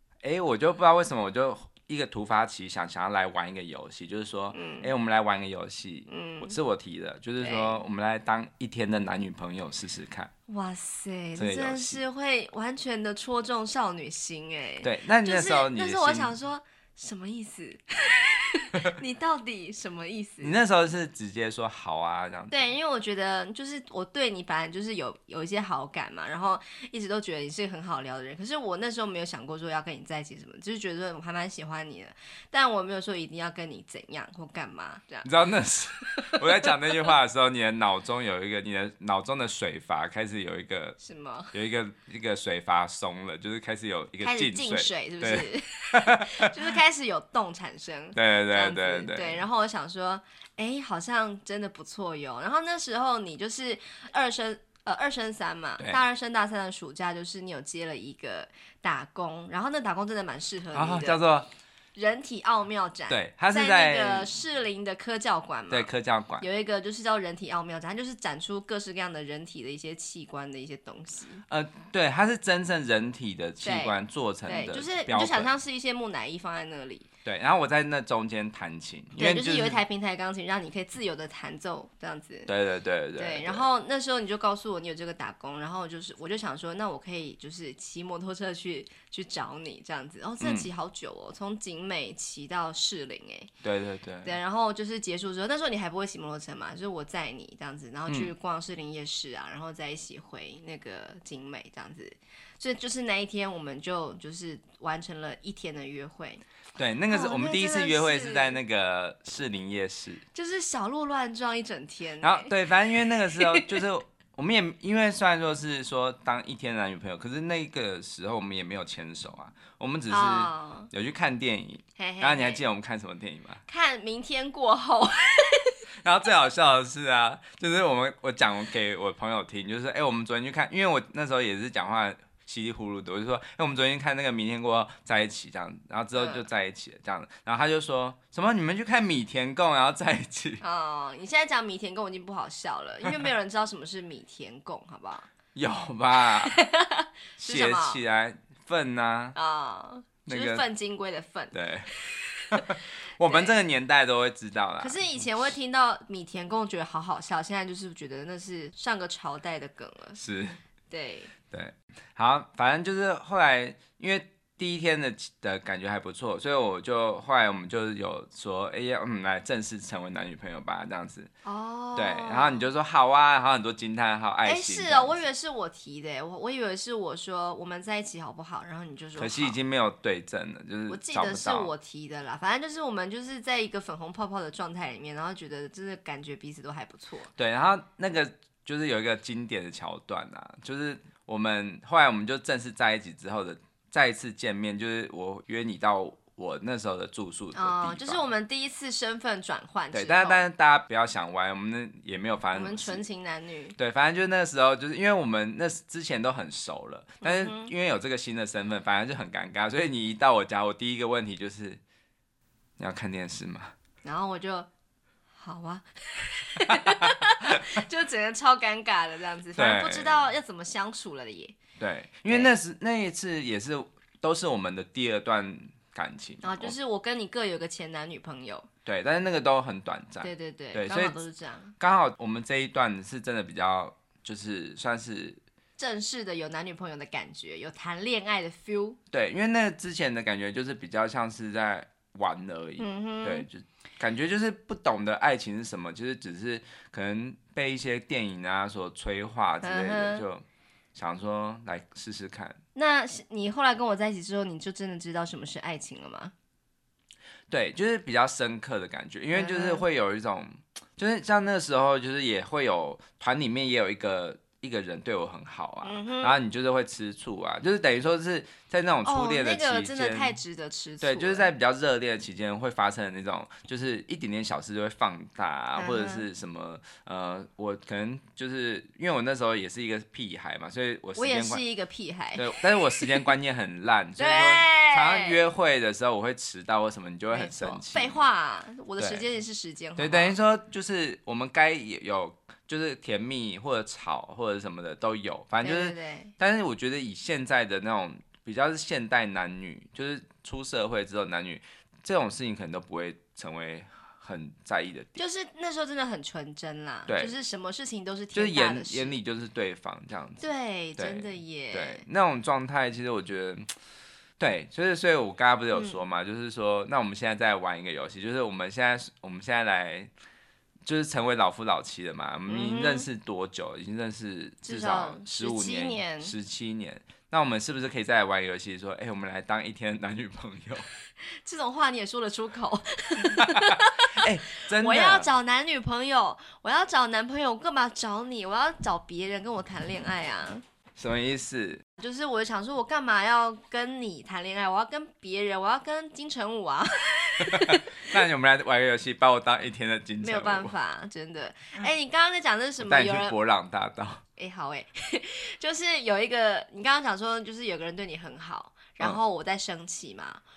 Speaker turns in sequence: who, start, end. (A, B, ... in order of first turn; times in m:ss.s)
0:00.2-0:10.3 A
0:04.5-0:04.9 B
0:06.1-0:06.6 B
0:07.4-0:07.8 B
0:10.5-0:20.6 B
0:11.4-0:12.0 A
0:14.8-0:16.3 A
0:20.4-0:22.6 A
0:22.5-0:35.3 B
0:35.2-0:41.0 A
0:36.2-0:36.7 B
0:41.0-0:41.5 B
0:41.5-0:46.6 A
0:44.2-1:01.2 B
0:48.2-0:49.4 A
1:00.7-1:01.5 A
1:02.0-1:05.9 B
1:03.1-1:04.3 A
1:05.7-1:06.4 A
1:06.4-1:11.4 B
1:11.5-1:15.5 A
1:13.6-1:17.1 B
1:17.2-1:19.8 A
1:19.2-1:22.5 B
1:22.5-1:23.6 A
1:23.2-1:33.5 B
1:30.4-1:30.7 A
1:33.6-1:34.4 A
1:34.2-1:46.4 B
1:46.8-1:50.2 A
1:47.1-1:48.6 B
1:50.3-1:52.5 B
1:52.2-2:03.6 A
1:53.4-1:53.8 B
2:00.1-2:00.9 B
2:02.0-2:02.6 B
2:03.7-2:05.8 B
2:06.0-2:20.6 A
2:16.1-2:16.4 B
2:20.6-2:25.3 B
2:25.5-2:26.6 A
2:26.3-2:28.0 B
2:27.4-2:29.4 A
2:29.4-2:33.6 B
2:30.3-2:30.6 A
2:31.5-2:31.9 A
2:32.5-2:35.2 A
2:34.8-2:40.2 B
2:40.2-2:40.6 A
2:40.9-2:41.3 B
2:41.5-2:51.3 A
2:51.4-2:52.6 B
2:52.0-2:55.3 A
2:54.4-2:59.6 B
2:59.2-3:01.7 A
3:00.9-3:07.3 B
3:07.4-3:18.3 A
3:17.5-3:20.4 B
3:19.9-3:23.0 A
3:22.5-3:23.8 B
3:23.8-3:31.8 A
3:27.2-3:27.7 B
3:32.8-3:33.7 A
3:34.0-3:34.7 B
3:35.4-3:41.6 B
3:36.7-3:37.0 A
3:39.6-3:40.2 A
3:41.8-3:46.8 A
3:46.4-3:48.7 B
3:48.9-3:51.2 A
3:50.2-3:51.8 B
3:51.8-3:55.4 A
3:55.8-3:59.0 B
3:59.1-4:10.4 A
4:02.8-4:03.5 B
4:09.6-4:10.2 B
4:11.0-4:12.6 A
4:12.8-4:16.3 B
4:17.5-4:30.4 A
4:19.3-4:19.8 B
4:25.8-4:26.4 B
4:29.0-4:31.5 B
4:31.0-4:41.6 A
4:35.8-4:36.3 B
4:41.2-4:43.3 B
4:42.4-4:48.2 A
4:44.2-4:45.4 B
4:47.3-4:50.4 B
4:49.0-4:49.2 A
4:50.0-5:05.2 A
4:55.6-4:56.3 B
5:05.2-5:09.1 B
5:07.1-5:07.4 A
5:08.3-5:10.4 A
5:10.4-5:12.0 B
5:11.0-5:13.7 A
5:14.4-5:20.1 A
5:15.7-5:16.0 B
5:20.9-5:30.9 A
5:22.5-5:23.1 B
5:24.6-5:26.3 B
5:31.2-5:40.6 B
5:33.2-5:35.3 A
5:41.0-5:41.8 A
5:42.0-5:47.9 B
5:47.4-5:50.7 A
5:50.2-5:53.4 B
5:52.8-5:54.2 A
5:54.4-6:00.4 B